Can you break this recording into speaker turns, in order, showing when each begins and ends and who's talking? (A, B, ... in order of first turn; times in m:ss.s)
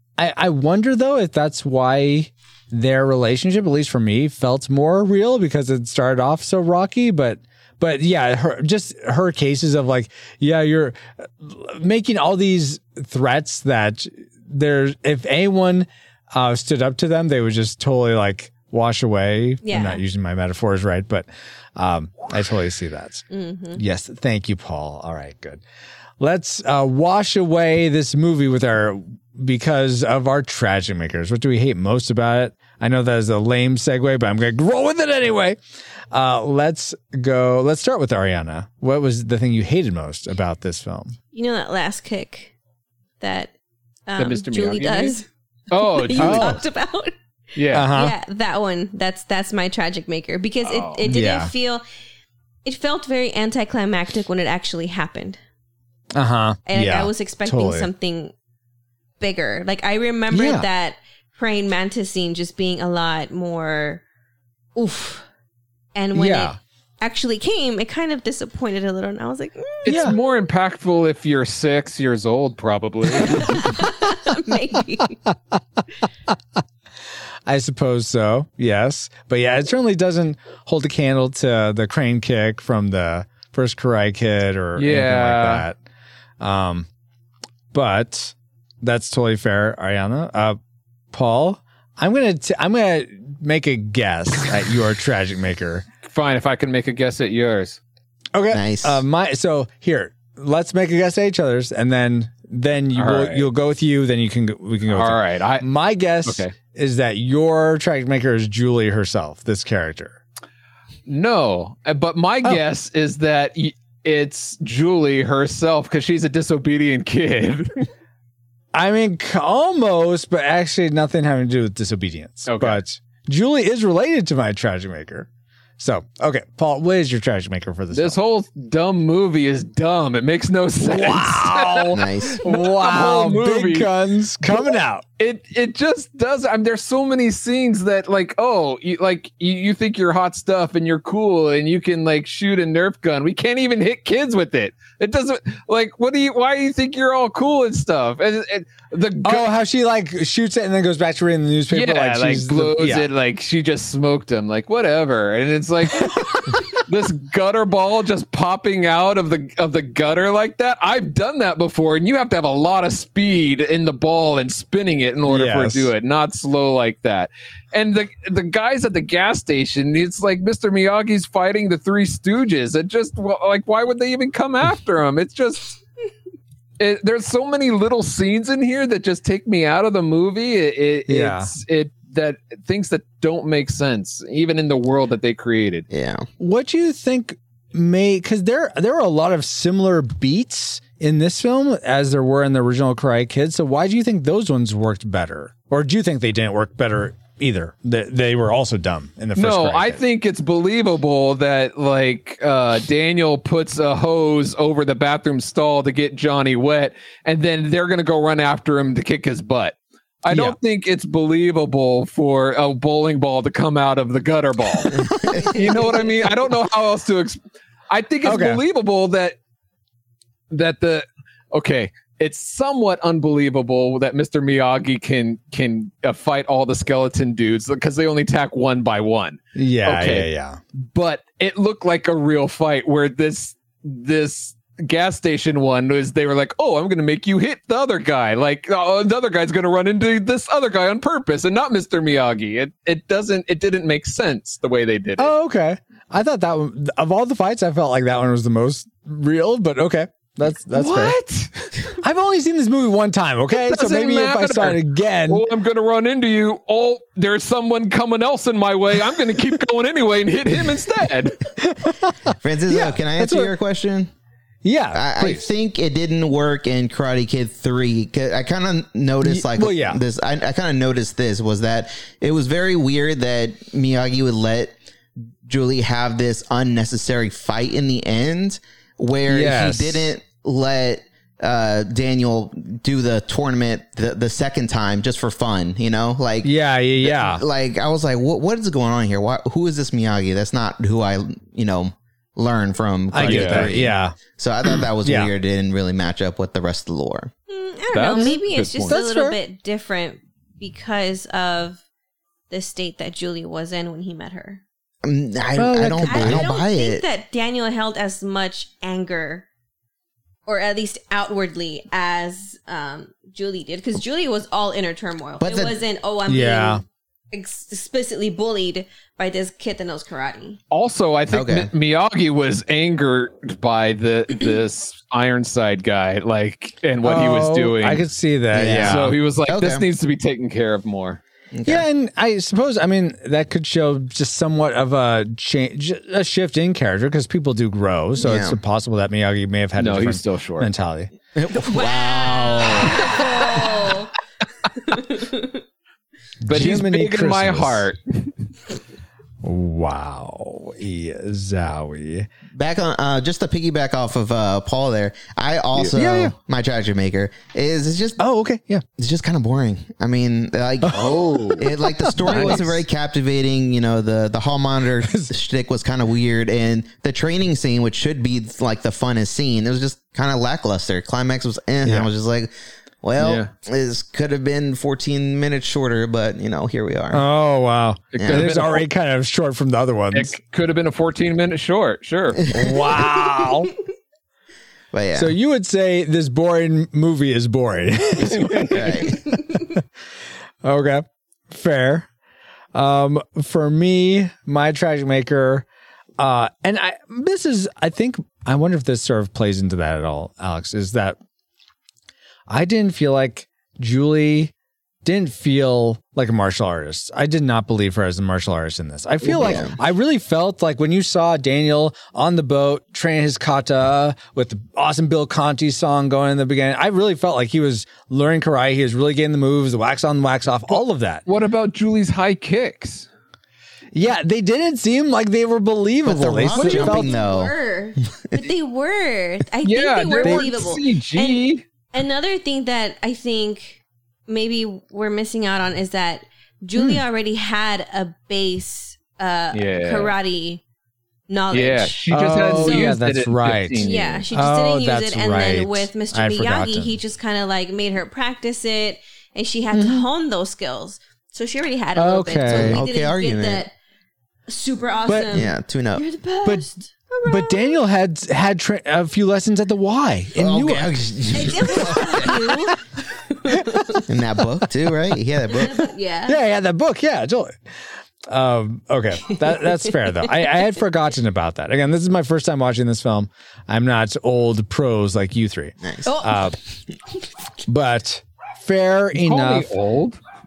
0:00.2-0:25.6 A
0:19.6-0:20.0 B
0:23.3-0:23.8 B
0:26.2-0:35.6 A
0:36.1-0:41.2 A
0:41.3-0:42.5 B
0:43.2-0:43.5 B
0:44.1-0:47.1 B
0:44.2-0:45.2 C
0:45.7-0:46.6 C
0:46.2-0:46.6 A
0:47.6-0:47.9 C
0:47.7-0:48.2 A
0:47.9-0:51.8 B
0:50.6-0:51.1 C
0:51.1-0:51.5 A
0:52.6-0:55.4 B
0:56.2-0:57.9 A
0:56.7-0:58.3 B
0:59.2-1:04.0 B
1:00.3-1:00.7 A
1:04.8-1:05.3 B
1:06.0-1:09.9 B
1:06.2-1:06.6 A
1:09.8-1:13.7 C
1:09.9-1:10.2 A
1:13.5-1:15.2 B
1:17.5-1:25.8 A
1:24.8-1:25.6 C
1:26.4-1:26.9 A
1:27.7-1:30.6 A
1:31.1-1:35.9 A
1:36.0-1:37.8 C
1:38.3-1:50.2 A
1:38.5-1:39.0 D
1:43.0-1:43.5 C
1:44.9-1:45.7 C
1:46.2-1:46.5 C
1:51.1-1:57.9 C
1:58.7-2:05.3 A
2:02.5-2:02.8 C
2:05.8-2:08.2 A
2:07.9-2:13.9 C
2:10.8-2:15.0 A
2:11.9-2:12.4 D
2:15.2-2:29.5 C
2:29.2-2:33.1 A
2:31.7-2:55.8 C
2:45.3-2:45.9 A
2:56.8-3:05.9 C
3:01.1-3:01.5 A
3:05.9-3:06.3 D
3:06.4-3:20.0 A
3:19.4-3:37.4 C
3:30.3-3:30.6 A
3:35.0-3:35.6 D
3:37.9-3:39.4 C
3:38.2-3:38.6 A
3:40.5-4:05.3 C
3:49.6-3:50.6 A
4:05.2-4:11.2 A
4:10.7-4:12.0 C
4:12.0-4:15.4 A
4:13.5-4:21.4 C
4:21.6-4:23.5 A
4:22.4-4:24.1 D
4:24.6-4:25.5 A
4:24.9-4:34.8 D
4:29.2-4:30.0 A
4:35.4-4:57.3 D
4:39.3-4:40.1 A
4:46.4-4:47.4 A
4:53.1-4:54.2 A
4:53.2-4:53.7 C
4:55.0-4:55.3 A
4:57.5-5:01.8 B
4:57.9-4:59.0 C
4:58.2-4:59.4 A
5:02.5-5:04.6 B
5:05.0-5:07.0 D
5:05.6-5:06.4 A
5:06.0-5:09.5 B
5:10.5-5:20.6 B
5:15.4-5:15.8 D
5:16.3-5:16.8 A
5:20.7-5:28.1 C
5:21.3-5:21.7 D
5:27.0-5:29.2 A
5:28.5-5:29.9 D
5:28.6-5:31.2 C
5:31.5-5:31.9 D
5:31.6-5:41.1 A
5:38.2-5:38.6 D
5:39.8-5:40.7 C
5:41.4-5:43.6 D
5:41.5-5:44.1 B
5:44.8-5:45.6 B
5:46.4-5:47.9 A
5:46.5-5:48.4 C
5:49.4-5:52.3 A
5:52.6-5:58.2 D
5:55.8-5:56.4 A
5:58.2-5:58.8 A
5:59.0-6:17.3 D
6:00.8-6:02.8 A
6:02.3-6:02.7 C
6:05.0-6:05.3 A
6:11.8-6:12.1 A
6:13.2-6:13.5 C
6:17.1-6:20.4 A
6:18.1-6:18.8 C
6:18.2-6:18.7 D
6:20.1-6:22.4 C
6:22.4-6:23.0 D
6:22.5-6:23.7 A
6:24.9-6:25.3 D
6:25.1-6:29.8 A
6:28.2-6:29.0 C
6:28.7-6:29.2 D
6:30.6-6:32.1 A
6:32.7-6:35.7 A
6:36.2-6:41.2 A
6:42.5-6:44.5 A
6:45.0-7:01.2 A
6:49.2-6:49.8 D
7:00.7-7:03.1 C
7:03.9-7:07.2 A
7:06.0-7:07.5 D
7:06.6-7:06.9 C
7:06.6-7:20.6 B
7:09.6-7:11.6 C
7:10.2-7:10.7 A
7:19.5-7:20.1 C
7:21.3-7:23.0 B
7:21.5-7:24.2 C
7:22.1-7:27.0 A
7:23.8-7:33.7 B
7:29.7-7:30.0 A
7:32.0-7:32.8 A
7:32.5-7:33.7 D
7:34.5-7:37.8 B
7:35.1-7:35.4 A
7:35.3-7:36.0 D
7:37.2-7:41.0 A
7:40.4-7:42.4 D
7:41.3-7:44.0 B
7:41.5-7:42.5 A
7:44.1-7:45.9 D
7:45.5-7:46.4 B
7:46.3-7:56.6 A
7:55.8-7:56.1 D
7:56.0-7:56.5 B
7:57.7-7:59.7 A
7:59.2-8:00.2 C